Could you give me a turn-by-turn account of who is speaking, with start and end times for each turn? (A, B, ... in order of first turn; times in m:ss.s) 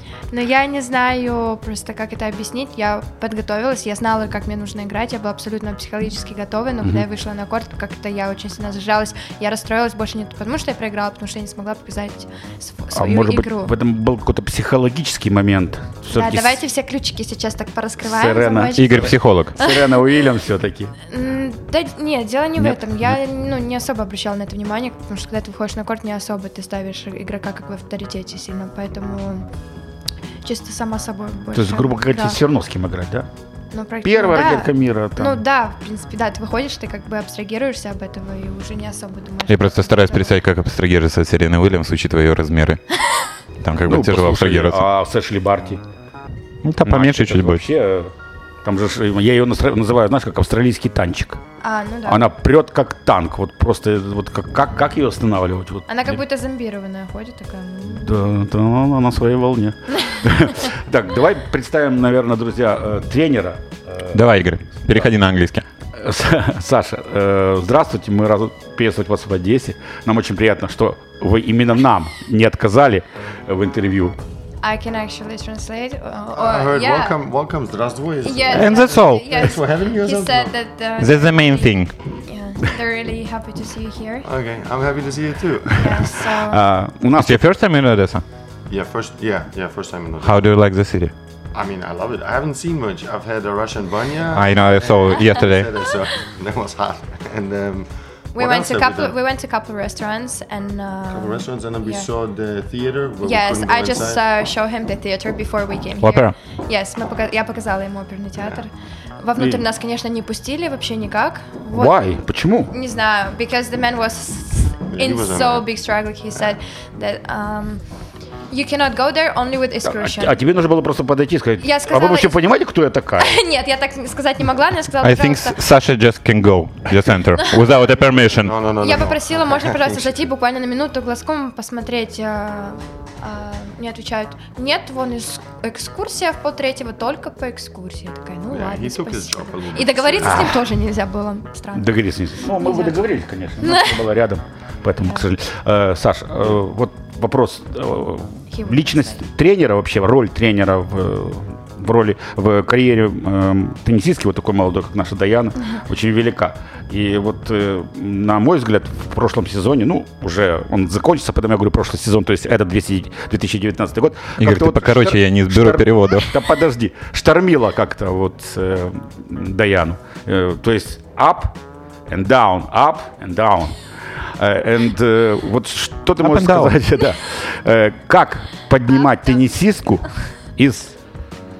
0:00.3-0:13.7 A
0:12.9-0:16.6 B
0:16.1-0:20.0 A
0:18.0-0:21.0 B
0:18.8-0:19.5 C
0:21.1-0:29.5 A
0:22.6-0:23.1 B
0:30.4-0:32.4 A
0:31.5-0:33.3 B
0:33.7-0:40.4 A
0:34.0-0:35.4 B
0:39.5-0:42.8 C
0:43.6-0:44.8 C
0:43.9-0:45.8 B
0:46.6-0:47.6 C
0:46.8-0:48.1 B
0:48.6-0:51.4 B
0:51.6-0:52.3 A
0:52.1-0:56.2 B
0:55.9-0:58.3 A
0:57.9-1:04.2 B
1:04.1-1:05.6 C
1:05.9-1:14.2 B
1:14.6-1:17.2 A
1:16.3-1:20.5 D
1:18.2-1:24.3 A
1:18.5-1:19.5 C
1:21.0-1:21.9 C
1:24.2-1:26.2 D
1:25.8-1:26.6 A
1:26.3-1:27.5 B
1:27.2-1:28.2 C
1:28.7-1:30.5 D
1:30.2-1:31.1 C
1:31.5-1:39.2 D
1:34.3-1:35.7 C
1:38.3-1:42.1 A
1:41.1-1:44.2 D
1:43.2-1:48.7 A
1:46.0-1:46.3 C
1:49.2-1:52.0 A
1:49.4-1:49.6 B
1:51.7-1:52.7 B
1:52.7-1:57.8 A
1:54.9-1:55.7 D
1:58.5-2:00.4 A
1:59.8-2:03.3 B
2:01.6-2:02.4 A
2:03.2-2:05.6 A
2:05.0-2:08.6 C
2:07.9-2:10.2 D
2:08.8-2:21.9 A
2:18.5-2:20.7 D
2:20.3-2:20.5 B
2:21.7-2:53.8 B
2:22.5-2:23.0 A
2:23.6-2:24.0 A
2:28.5-2:29.2 A
2:44.4-2:46.4 C
2:54.4-3:01.0 B
2:56.2-2:56.8 C